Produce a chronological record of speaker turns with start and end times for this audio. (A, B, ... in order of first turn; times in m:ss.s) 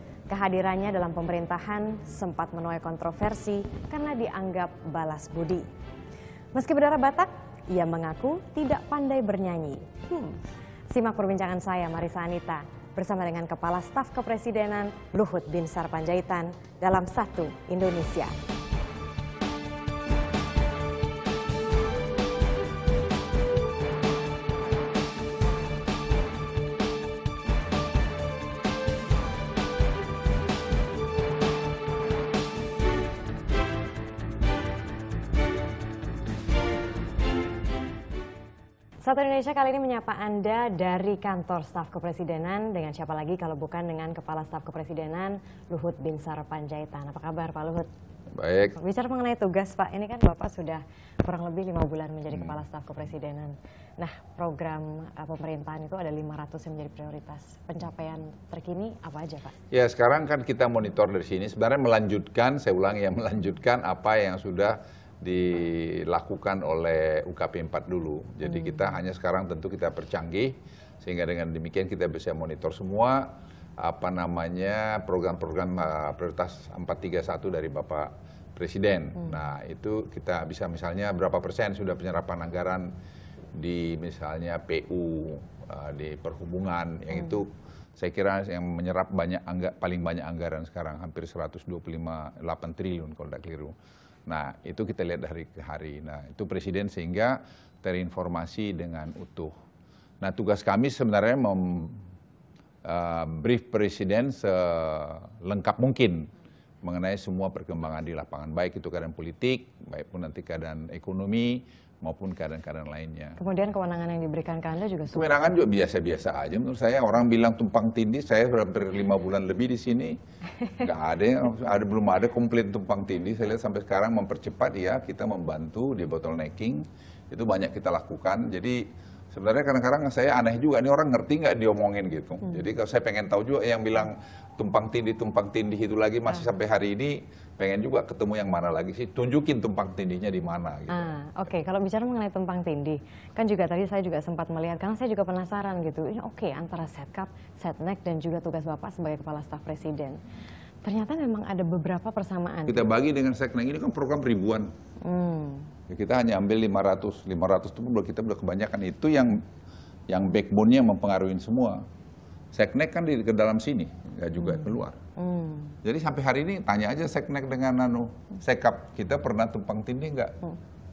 0:00.3-0:05.7 A
0:06.5-0:10.4 A
0:10.9-0:18.3 A
0:39.0-0:47.9 A
0:48.3-0:48.7 B
0:48.8-0:59.5 A
0:59.7-1:22.9 B
1:08.5-1:08.8 A
1:23.6-1:33.7 B
1:34.3-1:39.5 B
1:40.2-1:42.0 B
1:42.8-1:46.3 B
1:46.8-1:53.4 B
1:53.4-1:55.6 A
1:55.1-2:00.2 B
2:00.7-2:21.1 B
2:20.9-2:30.2 A
2:30.8-2:32.8 A
2:32.7-2:34.7 B
2:35.0-2:35.7 A
2:35.9-2:39.4 B
2:40.1-2:41.8 B
2:42.5-2:45.0 B
2:45.2-2:45.8 A
2:45.8-2:50.3 B